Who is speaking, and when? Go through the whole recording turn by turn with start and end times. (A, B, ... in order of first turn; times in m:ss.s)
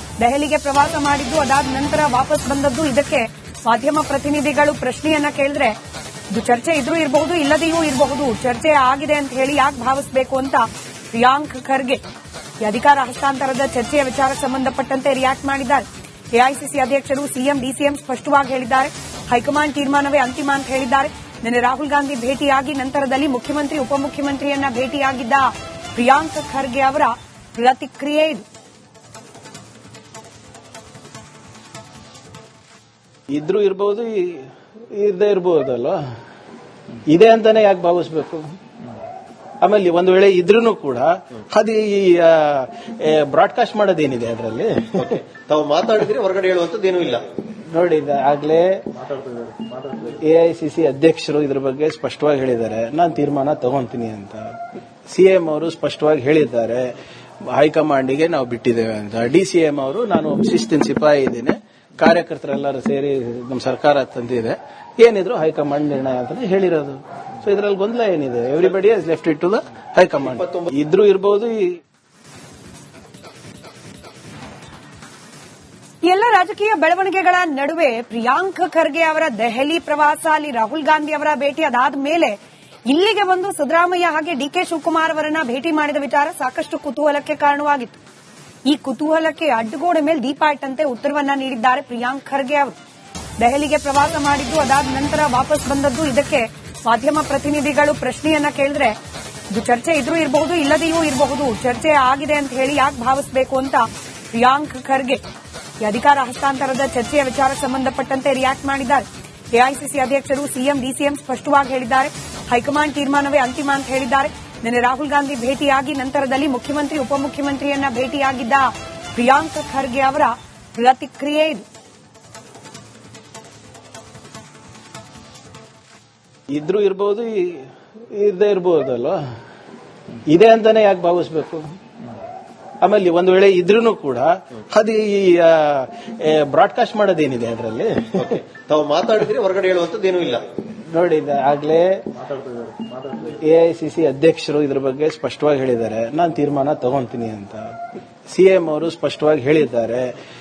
0:00.2-0:05.8 A
0:06.3-0:12.0 A
0:12.6-0:28.4 A
0:33.3-0:36.0 B
0:37.1-0:38.6 B
0:39.6-0:45.2 B
0:45.0-0:47.3 C
0:47.7-0:54.6 B
0:55.1-0:57.0 B
0:57.5-1:11.8 B
1:16.0-1:28.0 A
1:28.6-1:32.8 A
1:33.4-1:39.0 A
1:39.5-1:45.2 A
1:45.8-2:01.6 A
2:06.5-2:09.2 B
2:10.3-2:11.7 B
2:12.8-2:18.4 B
2:18.2-2:20.5 C
2:20.9-2:27.8 B
2:28.3-2:30.2 B